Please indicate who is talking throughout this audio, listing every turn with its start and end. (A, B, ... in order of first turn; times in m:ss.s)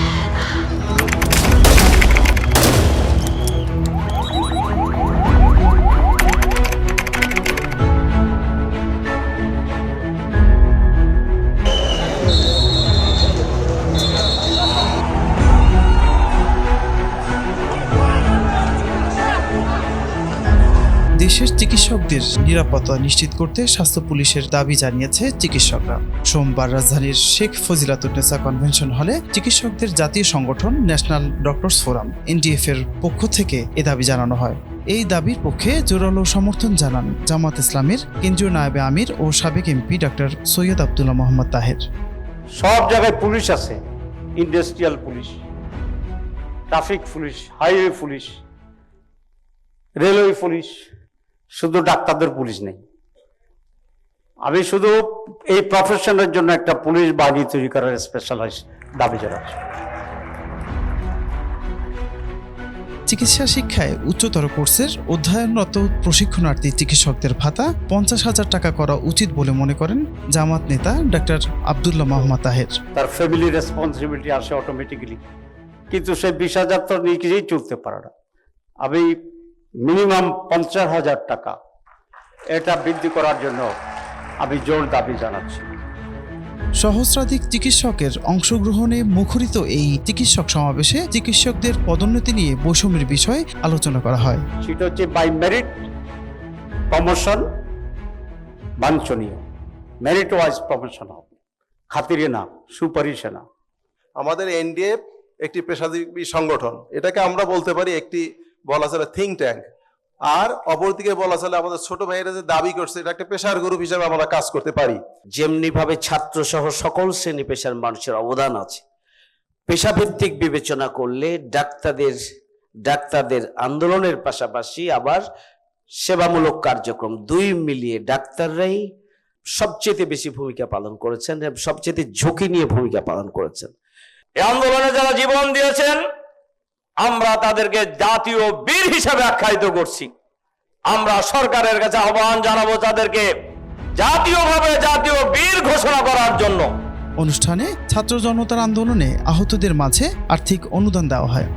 0:21.2-0:41.8 A
0:42.6-0:43.8 B
0:44.4-0:45.4 B
0:46.7-0:48.4 B
0:50.0-0:50.9 B
0:51.5-0:52.8 B
0:54.5-0:59.6 B
1:03.1-1:12.8 A
1:12.9-1:15.2 B
1:15.9-1:18.1 B
1:18.8-1:19.1 B
1:19.8-1:21.6 B
1:22.6-1:23.7 B
1:24.4-1:25.7 B
1:26.8-1:34.4 A
1:34.6-1:35.8 B
1:36.9-1:37.4 B
1:38.8-1:39.4 B
1:40.0-1:41.3 B
1:41.9-1:43.4 B
1:44.2-1:49.7 C
1:50.3-1:55.0 C
1:55.4-1:58.8 D
1:59.7-2:02.2 D
2:02.8-2:05.2 D
2:06.0-2:08.8 D
2:09.5-2:13.7 D
2:14.4-2:16.0 E
2:17.0-2:20.1 E
2:20.9-2:23.3 E
2:24.0-2:26.7 E
2:27.2-2:31.5 A